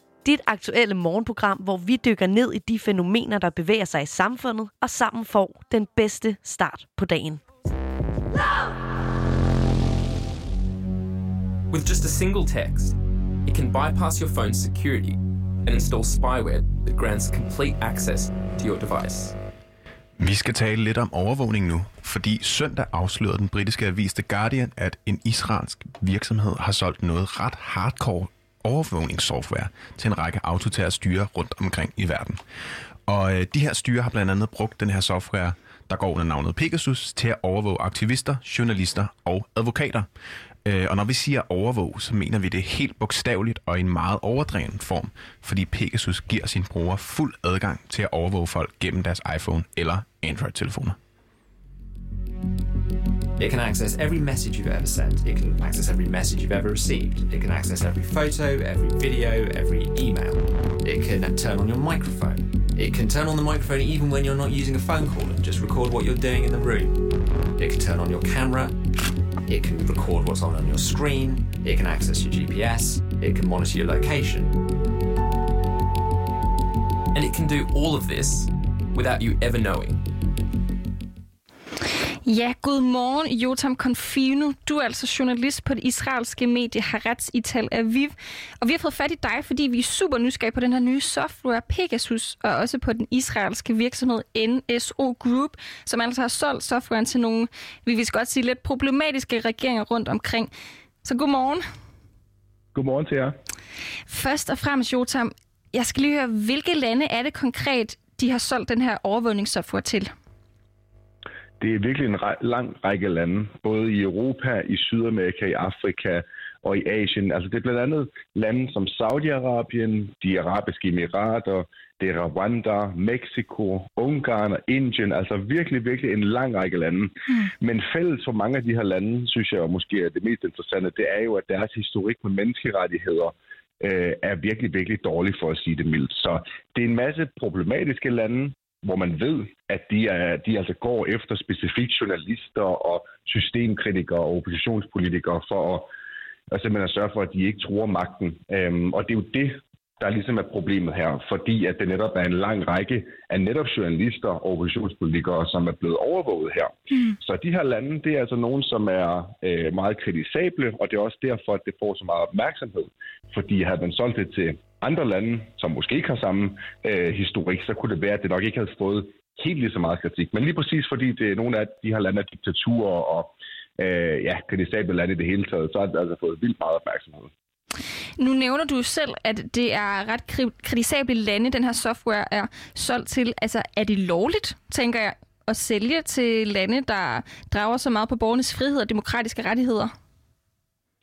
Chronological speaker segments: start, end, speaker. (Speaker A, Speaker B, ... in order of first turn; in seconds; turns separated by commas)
Speaker A: 0.2-7.4, Speaker B: 11.7-19.4, Speaker C: 20.2-32.4, Speaker C: 33.1-40.1, Speaker C: 40.6-51.0, Speaker D: 53.4-67.0, Speaker D: 67.6-68.7, Speaker D: 69.5-74.5, Speaker B: 77.1-80.0, Speaker E: 82.2-100.5, Speaker E: 101.0-101.6, Speaker F: 102.8-103.3, Speaker E: 104.1-110.1, Speaker F: 111.6-145.9, Speaker F: 146.5-177.3, Speaker E: 178.2-189.9